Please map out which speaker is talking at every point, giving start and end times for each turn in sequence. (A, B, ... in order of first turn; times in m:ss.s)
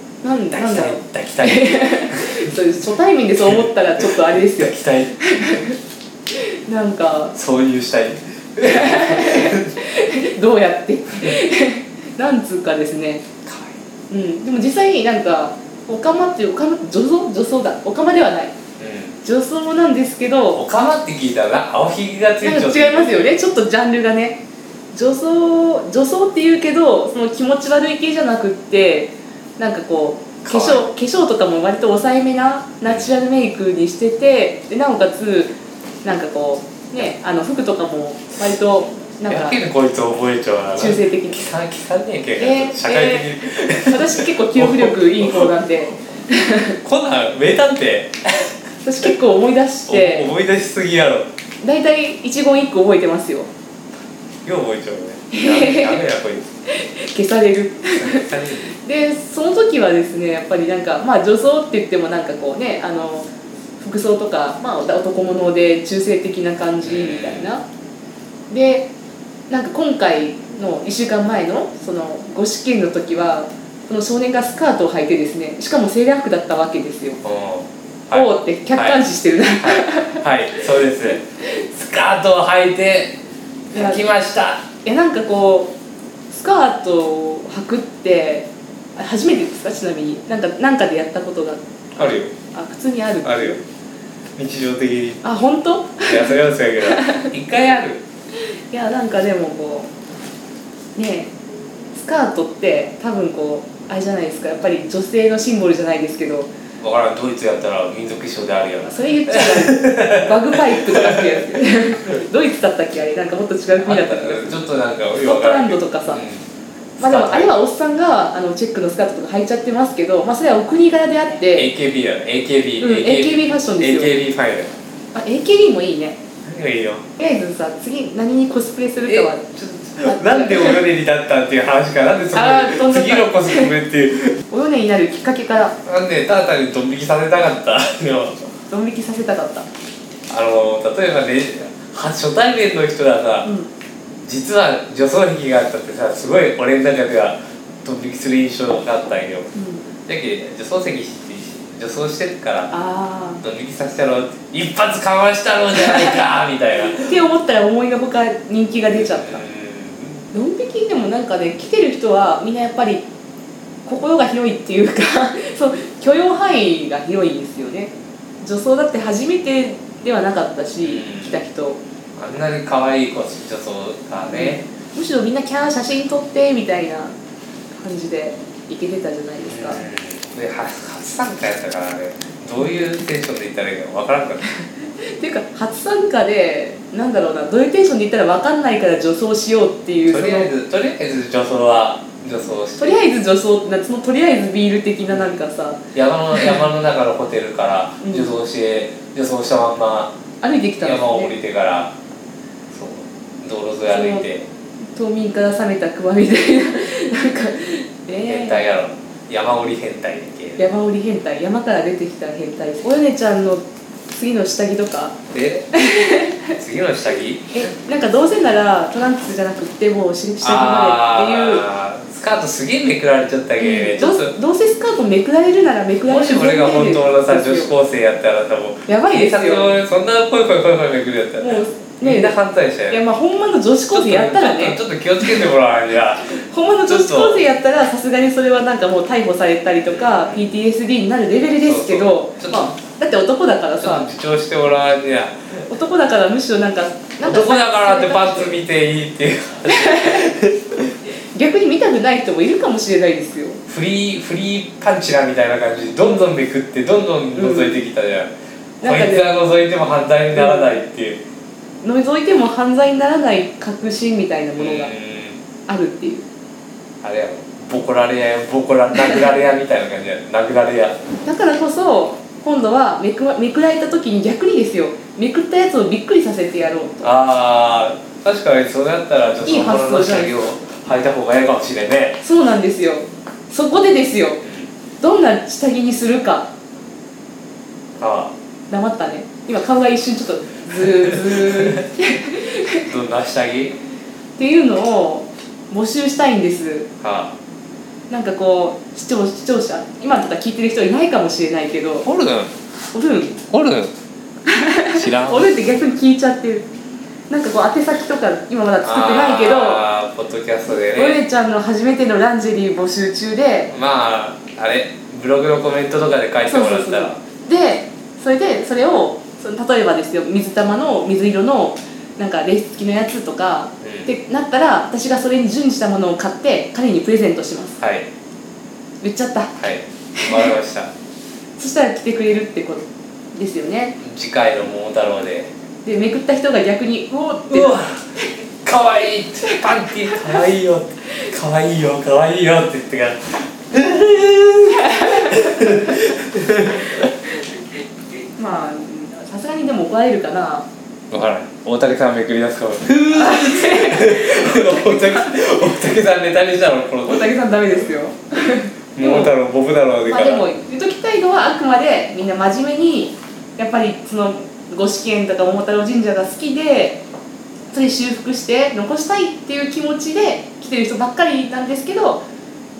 0:00.2-0:05.8 A
0:00.5-0:02.5 B
0:03.4-0:05.5 B
0:06.3-0:07.4 A
0:07.3-0:09.8 B
0:08.6-0:13.2 A
0:13.4-0:13.8 B
0:14.1-0:18.6 A
0:18.8-0:19.2 B
0:19.2-0:20.6 A
0:20.5-0:23.4 B
0:22.4-0:24.4 A
0:24.9-0:35.5 A
0:30.4-0:30.9 B
0:36.0-0:39.6 A
0:39.3-0:45.5 B
0:40.8-0:41.4 A
0:42.4-0:46.8 A
0:46.8-0:48.5 B
0:48.8-0:50.3 A
0:49.9-0:51.3 B
0:51.6-0:53.5 A
0:54.4-0:56.4 B
0:55.3-0:56.0 A
0:56.7-1:03.3 A
0:57.9-0:58.7 B
1:03.8-1:07.6 A
1:06.8-1:07.5 B
1:08.5-1:08.9 A
1:09.5-1:17.2 A
1:17.2-1:19.0 B
1:18.1-1:20.2 A
1:19.6-1:23.2 B
1:23.7-1:24.6 B
1:24.8-1:25.7 A
1:26.3-1:33.6 A
1:32.0-1:32.3 B
1:33.2-1:33.6 B
1:34.4-1:35.2 B
1:35.2-1:37.3 A
1:36.0-1:38.0 B
1:38.7-1:39.9 A
1:41.0-1:41.3 A
1:41.9-1:46.5 A
1:46.8-1:51.4 B
1:48.8-1:54.6 A
1:53.8-1:56.4 B
1:55.2-1:56.2 A
1:57.0-1:57.6 B
1:57.0-2:01.7 A
2:01.5-2:04.7 B
2:02.8-2:04.1 A
2:05.1-2:06.2 A
2:06.4-2:07.0 B
2:07.2-2:10.8 A
2:09.0-2:14.4 B
2:12.3-2:13.7 A
2:14.5-2:15.8 A
2:15.8-2:18.4 B
2:18.7-2:19.7 A
2:20.3-2:23.5 B
2:23.4-2:23.7 A
2:24.2-2:29.5 B
2:29.5-2:29.8 A
2:30.1-2:32.7 B
2:32.7-2:33.4 A
2:33.4-2:37.2 B
2:35.7-2:36.2 A
2:36.8-2:39.4 A
2:38.9-2:40.2 B
2:40.3-2:43.0 A
2:43.8-2:51.8 A
2:50.8-2:51.4 B
2:52.2-2:54.6 B
2:54.3-2:57.1 A
2:57.8-2:59.8 A
2:59.4-3:04.4 B
3:04.5-3:10.5 A
3:10.1-3:13.0 B
3:12.8-3:15.8 A
3:15.1-3:15.4 B
3:15.9-3:20.2 B
3:16.3-3:16.6 A
3:18.0-3:18.3 A
3:20.4-3:21.3 A
3:20.8-3:21.9 B
3:22.7-3:24.5 B
3:23.9-3:24.3 A
3:24.9-3:28.6 A
3:28.2-3:30.7 B
3:30.6-3:35.2 A
3:35.3-3:35.7 B
3:35.7-3:36.5 A
3:36.6-3:37.6 B
3:37.5-3:41.7 A
3:40.4-3:44.3 B
3:43.6-3:47.7 A
3:46.0-3:53.0 B
3:48.9-3:49.8 A
3:51.4-3:52.3 A
3:52.9-3:55.5 A
3:53.9-3:57.5 B
3:56.3-4:04.1 A
3:59.8-4:00.5 B
4:01.6-4:02.8 B
4:03.8-4:05.7 B
4:05.7-4:08.6 A
4:07.2-4:10.9 B
4:09.7-4:10.3 A
4:11.3-4:13.6 A
4:13.7-4:21.2 B
4:17.4-4:17.8 A
4:18.8-4:19.3 A
4:20.3-4:20.7 A
4:21.8-4:24.9 A
4:24.6-4:25.4 B
4:25.7-4:26.2 A
4:27.0-4:31.0 B
4:31.2-4:37.1 A
4:37.0-4:42.2 B
4:39.4-4:40.3 A
4:42.2-4:44.4 A
4:44.4-4:44.7 B
4:45.0-4:46.5 A
4:48.0-4:48.3 B
4:48.7-4:52.8 A
4:51.3-4:51.8 B
4:52.9-4:53.8 B
4:54.4-4:56.9 A
4:57.0-4:57.3 B
4:58.1-5:02.1 A
5:02.0-5:02.5 B
5:02.9-5:03.4 A
5:03.5-5:03.9 B
5:04.4-5:06.7 A
5:04.9-5:05.5 B
5:07.3-5:09.9 A
5:08.8-5:11.2 B
5:11.0-5:13.7 A
5:13.7-5:17.2 B
5:16.5-5:27.8 A
5:23.8-5:24.1 B
5:27.8-5:28.1 B
5:29.0-5:29.5 A
5:29.6-5:30.9 B
5:30.1-5:30.5 A
5:31.6-5:34.0 A
5:34.0-5:35.5 B
5:35.8-5:38.4 A
5:37.5-5:38.0 B
5:38.6-5:47.1 B
5:45.0-5:45.8 A
5:48.3-5:50.6 A
5:51.1-5:57.8 B
5:53.1-5:55.5 A
5:57.0-5:59.3 A
5:59.0-6:00.5 B
6:00.1-6:07.0 A
6:07.7-6:12.2 A